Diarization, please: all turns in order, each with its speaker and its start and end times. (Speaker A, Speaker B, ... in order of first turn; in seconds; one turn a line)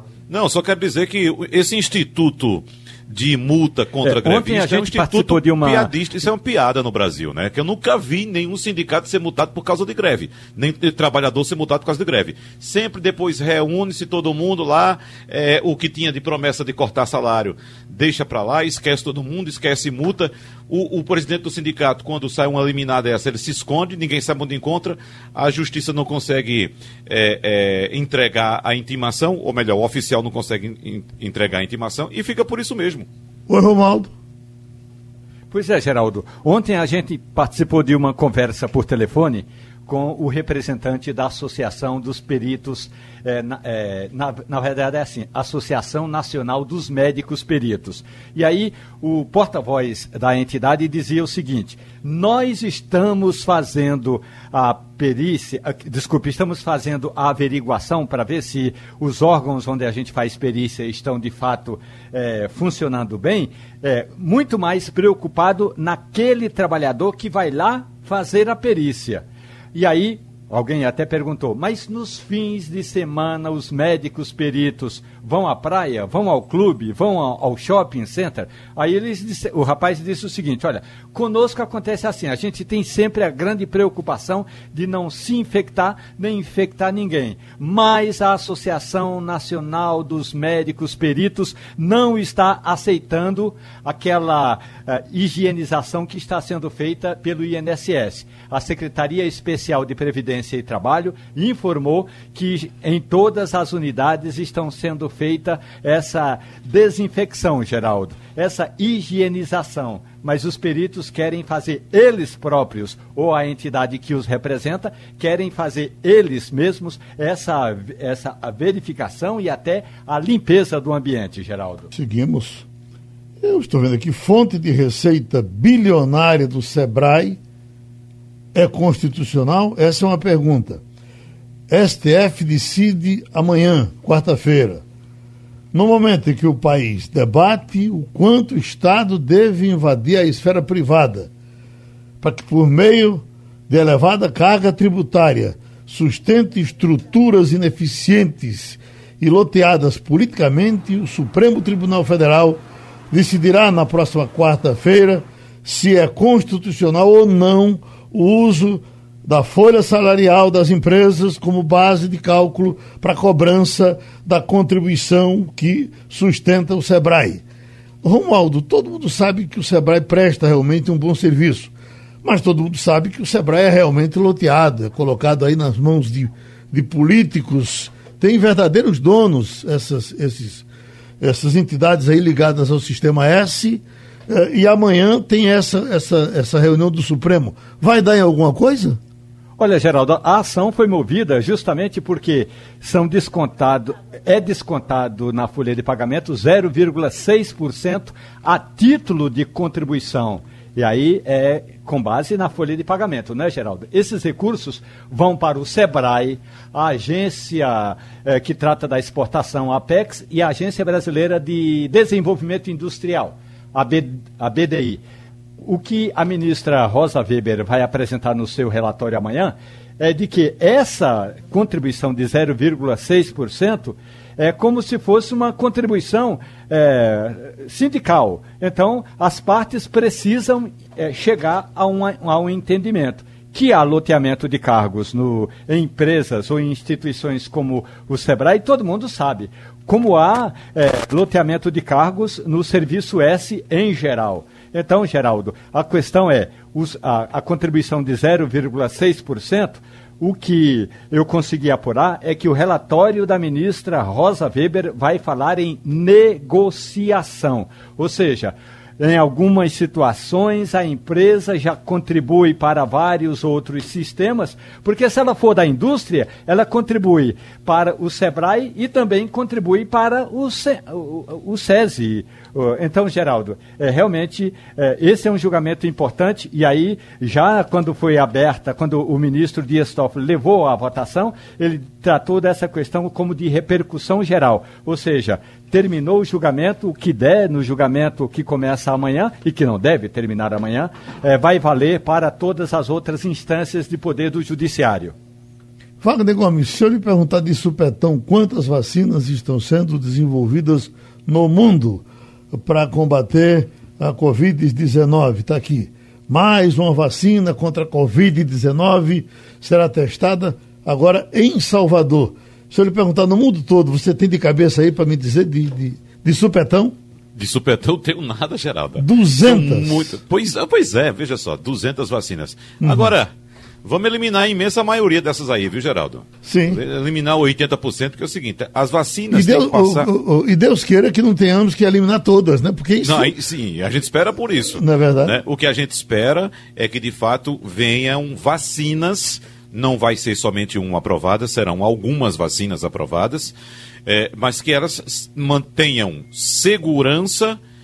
Speaker A: 0.3-33.1
Speaker B: 4.0-5.9
Speaker C: 33.5-34.1
Speaker B: 35.5-121.9
Speaker C: 121.9-122.7
Speaker C: 123.4-127.4
Speaker C: 128.5-130.8
Speaker C: 131.7-134.8
Speaker C: 135.7-141.3
Speaker C: 142.2-167.4
Speaker C: 168.0-171.7
Speaker C: 172.2-180.7
Speaker C: 181.2-189.0
Speaker B: 189.6-215.0
Speaker B: 215.6-295.1
Speaker C: 296.0-316.9
Speaker A: 317.3-323.3
Speaker C: 319.0-320.1
Speaker C: 322.8-323.1
Speaker A: 323.8-330.1
Speaker C: 326.4-326.8
Speaker C: 329.3-333.3
Speaker A: 333.0-343.5
Speaker C: 334.8-335.4
Speaker A: 344.1-347.6